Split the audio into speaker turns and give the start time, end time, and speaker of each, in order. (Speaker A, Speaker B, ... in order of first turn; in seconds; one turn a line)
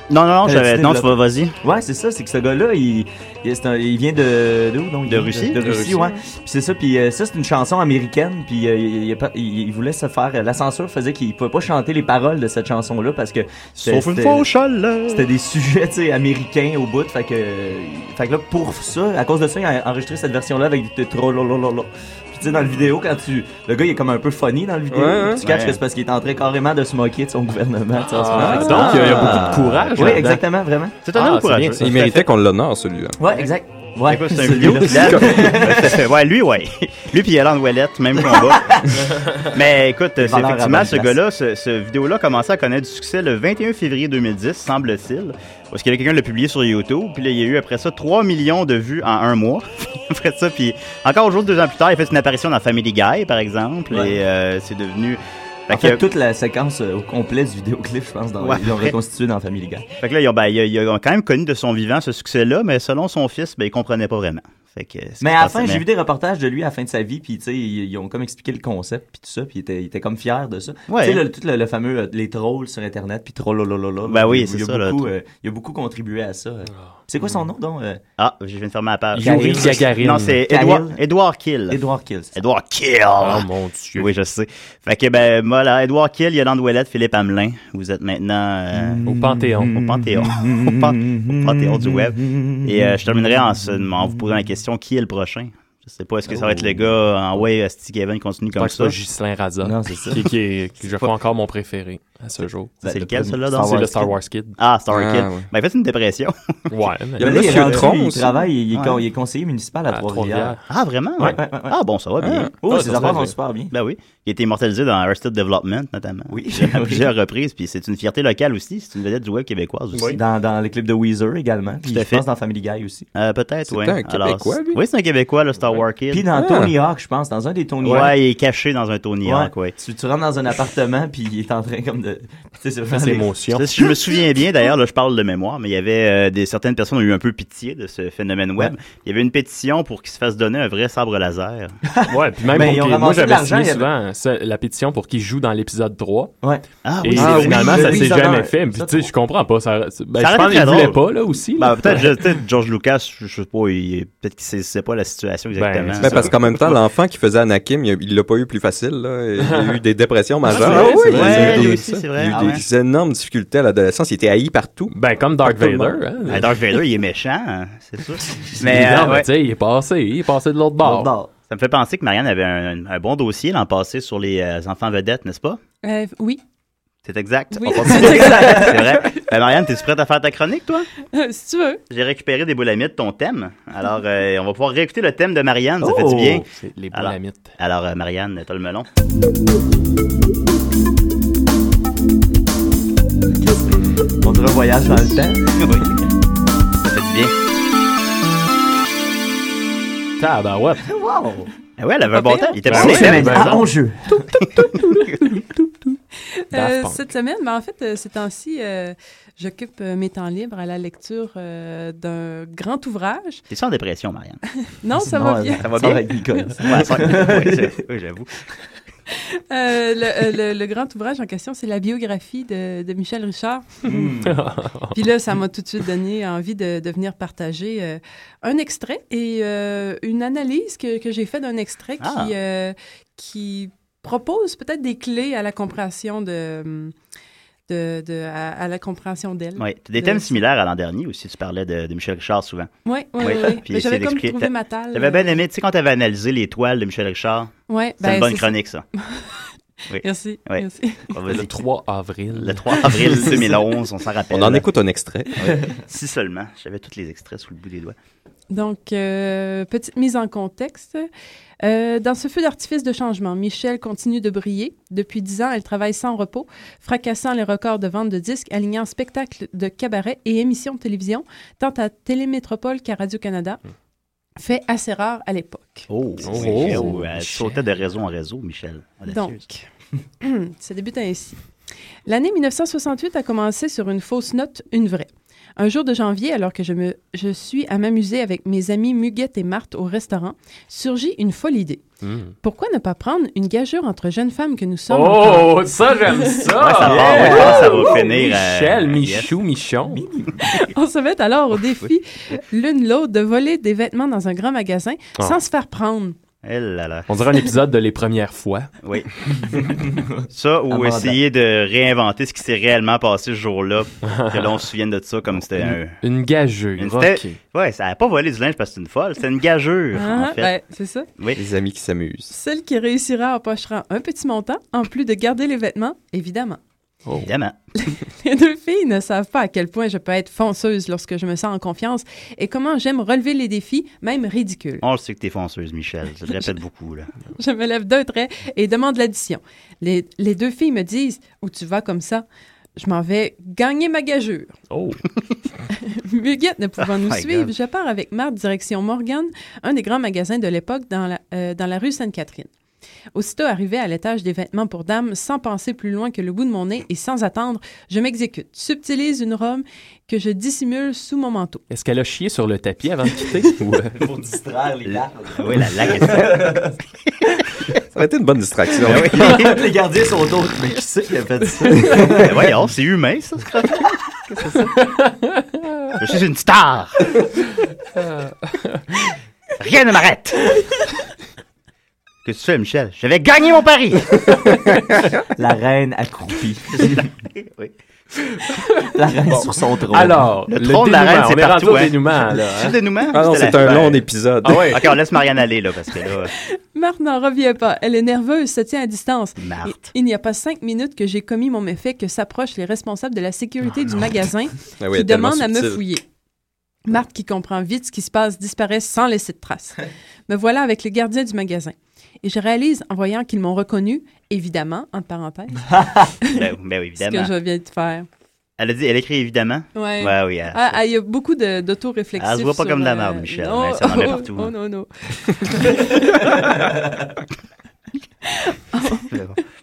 Speaker A: 0.1-1.6
Speaker B: 0.4-14.5
Speaker A: 5.1-5.8
Speaker A: 13.8-15.3
Speaker B: 15.1-31.0
Speaker C: 24.9-25.4
Speaker A: 25.4-25.8
Speaker D: 28.1-30.4
Speaker C: 28.4-29.6
Speaker A: 30.0-30.3
Speaker A: 31.0-32.3
Speaker D: 31.1-31.8
Speaker C: 31.8-33.2
Speaker B: 33.2-36.0
Speaker A: 34.1-56.0
Speaker C: 34.9-35.6
Speaker B: 38.3-39.3
Speaker B: 40.2-41.2
Speaker B: 53.9-54.2
Speaker B: 55.7-59.9
Speaker A: 58.4-59.0
Speaker A: 60.0-65.8
Speaker B: 65.2-78.0
Speaker A: 70.9-71.2
Speaker A: 74.1-75.1
Speaker D: 76.8-77.4
Speaker A: 78.2-81.8
Speaker D: 79.1-80.4
Speaker B: 79.2-79.9
Speaker B: 80.5-81.0
Speaker B: 81.7-82.4
Speaker A: 82.3-89.0
Speaker D: 83.2-84.1
Speaker B: 88.7-94.3
Speaker D: 89.1-89.8
Speaker A: 89.8-99.0
Speaker D: 98.5-104.6
Speaker B: 99.6-100.2
Speaker A: 102.8-104.0
Speaker B: 102.8-104.1
Speaker A: 104.6-106.5
Speaker C: 104.9-105.5
Speaker D: 106.7-107.7
Speaker C: 107.2-108.3
Speaker B: 107.2-110.6
Speaker A: 107.3-107.8
Speaker A: 108.7-109.0
Speaker D: 109.9-110.6
Speaker A: 110.7-113.2
Speaker B: 111.2-111.8
Speaker C: 112.2-112.5
Speaker B: 112.6-113.7
Speaker D: 112.7-113.3
Speaker A: 113.7-120.2
Speaker B: 116.3-117.1
Speaker D: 119.9-120.2
Speaker B: 120.1-123.1
Speaker A: 121.8-122.2
Speaker A: 123.2-126.3
Speaker C: 123.7-124.8
Speaker B: 126.1-128.2
Speaker C: 126.3-126.7
Speaker D: 127.8-128.1
Speaker A: 127.8-129.7
Speaker B: 129.2-133.3
Speaker D: 132.9-133.7
Speaker A: 133.6-141.8
Speaker B: 141.9-143.9
Speaker D: 142.1-146.3
Speaker A: 146.8-148.1
Speaker D: 147.0-152.1
Speaker B: 147.2-149.1
Speaker A: 150.2-151.0
Speaker A: 151.6-156.8
Speaker D: 155.6-156.3
Speaker C: 156.0-164.9
Speaker D: 159.4-159.8
Speaker D: 160.5-161.7
Speaker A: 160.5-162.6
Speaker B: 160.5-162.6
Speaker D: 164.9-166.6
Speaker C: 165.4-166.0
Speaker A: 166.2-169.3
Speaker B: 168.6-169.2
Speaker D: 168.6-171.1
Speaker B: 170.8-171.3
Speaker A: 171.5-175.6
Speaker E: 175.8-176.4
Speaker A: 177.1-180.9
Speaker E: 177.5-179.1
Speaker B: 178.0-178.8
Speaker E: 181.1-181.8
Speaker A: 181.9-188.9
Speaker B: 185.8-186.4
Speaker D: 186.4-187.6
Speaker B: 193.4-193.7
Speaker B: 194.2-195.6
Speaker A: 196.8-197.3
Speaker D: 200.2-200.8
Speaker B: 200.8-201.5
Speaker A: 201.8-203.6
Speaker E: 202.1-202.6
Speaker D: 202.7-203.7
Speaker B: 202.7-204.2
Speaker A: 204.8-205.2
Speaker E: 204.8-205.1
Speaker E: 206.5-213.4
Speaker D: 206.5-207.0
Speaker A: 213.5-214.4
Speaker E: 214.7-215.7
Speaker B: 215.0-217.8
Speaker A: 215.6-216.1
Speaker A: 216.6-218.3
Speaker E: 219.5-223.9
Speaker B: 223.9-224.4
Speaker D: 224.2-224.9
Speaker E: 224.9-236.9
Speaker A: 232.0-232.3
Speaker E: 237.7-240.4
Speaker A: 239.6-248.8
Speaker E: 242.8-245.4
Speaker E: 247.7-249.4
Speaker A: 249.9-251.5
Speaker E: 250.0-251.1
Speaker D: 251.3-253.4
Speaker A: 252.3-254.7
Speaker C: 254.3-255.4
Speaker A: 255.4-258.0
Speaker E: 258.5-261.1
Speaker E: 261.6-273.6
Speaker E: 274.4-277.1
Speaker A: 275.9-279.4
Speaker D: 276.2-277.6
Speaker E: 279.1-279.7
Speaker E: 280.2-281.4
Speaker E: 282.1-291.8
Speaker D: 292.0-292.4
Speaker E: 292.4-296.5
Speaker D: 294.9-300.0
Speaker A: 296.6-299.3
Speaker B: 296.8-297.9
Speaker B: 299.9-300.3
Speaker E: 300.4-306.2
Speaker A: 306.4-307.1
Speaker D: 307.1-308.7
Speaker A: 308.8-309.1
Speaker B: 309.5-310.1
Speaker A: 310.3-316.0
Speaker B: 310.7-311.2
Speaker D: 314.0-314.6
Speaker D: 315.6-317.4
Speaker A: 316.8-320.5
Speaker E: 319.9-321.1
Speaker C: 321.4-322.3
Speaker E: 322.3-326.6
Speaker A: 327.2-327.6
Speaker E: 327.8-334.8
Speaker A: 334.8-337.1
Speaker E: 337.4-342.3
Speaker E: 342.8-344.6
Speaker D: 344.7-345.0
Speaker E: 345.7-352.5
Speaker A: 347.1-347.5
Speaker E: 353.1-361.6
Speaker D: 361.7-364.0
Speaker B: 364.0-366.8
Speaker A: 364.9-366.6
Speaker C: 367.9-369.2
Speaker A: 368.9-369.6
Speaker B: 369.0-372.4
Speaker A: 372.2-374.8
Speaker A: 376.0-377.2
Speaker A: 379.6-380.8
Speaker A: 382.2-384.3
Speaker B: 385.4-387.1
Speaker A: 387.4-387.7
Speaker B: 388.9-390.2
Speaker D: 389.4-392.8
Speaker A: 390.5-394.1
Speaker C: 393.1-394.7
Speaker D: 394.4-394.9
Speaker A: 394.6-396.3
Speaker E: 396.4-406.0
Speaker A: 399.4-399.9
Speaker C: 404.8-405.8
Speaker E: 406.9-415.7
Speaker A: 416.3-417.3
Speaker E: 417.0-418.1
Speaker A: 418.6-420.8
Speaker E: 419.8-426.4
Speaker A: 422.2-424.5
Speaker E: 428.2-429.1
Speaker A: 429.1-429.4